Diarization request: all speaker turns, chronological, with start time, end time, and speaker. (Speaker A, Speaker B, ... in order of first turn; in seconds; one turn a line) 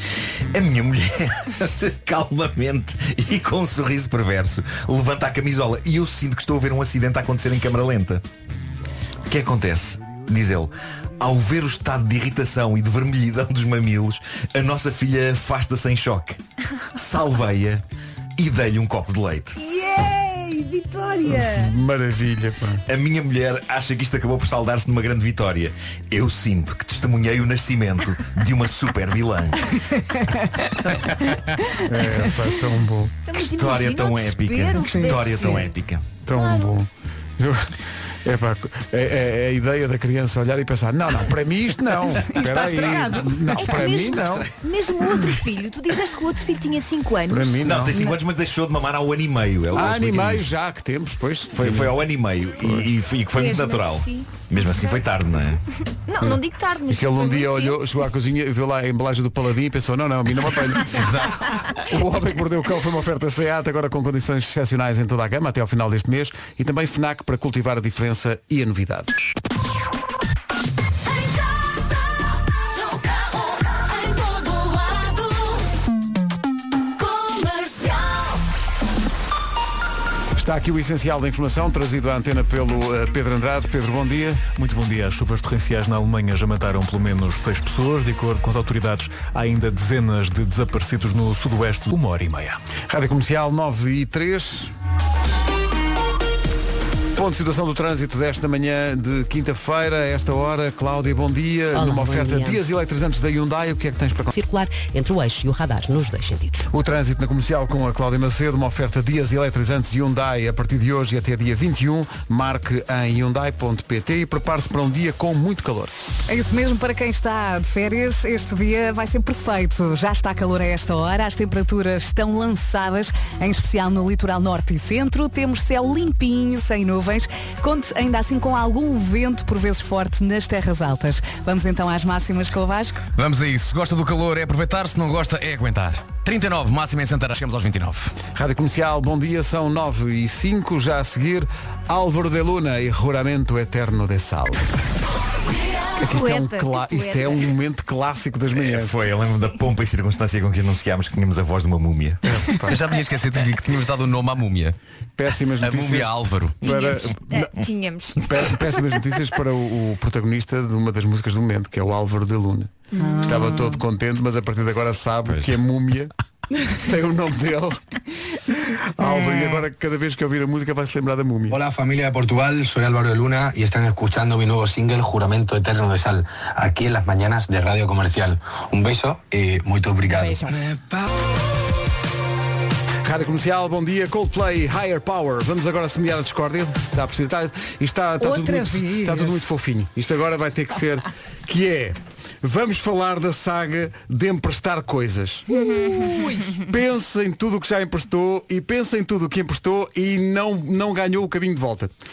Speaker A: 0.5-8.2
Speaker A: 9.3-16.4
Speaker A: 16.9-17.8
Speaker A: 18.4-19.6
Speaker B: 19.6-21.7
Speaker C: 21.2-22.8
Speaker A: 22.9-29.6
Speaker D: 30.1-30.6
Speaker C: 31.9-33.1
Speaker B: 33.2-35.7
Speaker A: 33.3-36.2
Speaker D: 34.8-35.6
Speaker C: 36.2-37.7
Speaker B: 36.3-36.7
Speaker C: 38.2-44.5
Speaker D: 42.2-43.3
Speaker B: 43.5-48.1
Speaker A: 44.1-44.6
Speaker C: 47.3-48.0
Speaker A: 47.6-50.5
Speaker C: 49.7-52.0
Speaker A: 51.5-55.6
Speaker C: 52.6-52.9
Speaker B: 53.3-55.0
Speaker B: 56.1-57.8
Speaker C: 56.2-61.2
Speaker C: 61.8-69.1
Speaker C: 80.3-84.4
Speaker E: 84.5-92.6
Speaker C: 92.9-94.7
Speaker C: 97.1-104.3
Speaker F: 101.7-102.6
Speaker F: 104.3-106.7
Speaker C: 106.7-115.9
Speaker D: 116.3-133.0
Speaker G: 133.1-138.1
Speaker C: 138.3-144.6
Speaker C: 146.0-148.9
Speaker B: 146.0-147.5
Speaker A: 148.5-152.2
Speaker C: 152.2-152.8
Speaker G: 152.6-154.8
Speaker C: 155.2-157.5
Speaker G: 155.6-156.6
Speaker B: 156.6-158.4
Speaker C: 158.2-166.1
Speaker B: 162.9-163.7
Speaker D: 163.0-163.3
Speaker C: 166.6-167.8
Speaker C: 168.9-171.6
Speaker H: 171.5-180.5
Speaker D: 180.1-180.6
Speaker C: 183.0-201.9
Speaker D: 188.2-189.4
Speaker B: 195.5-196.6
Speaker D: 196.1-196.4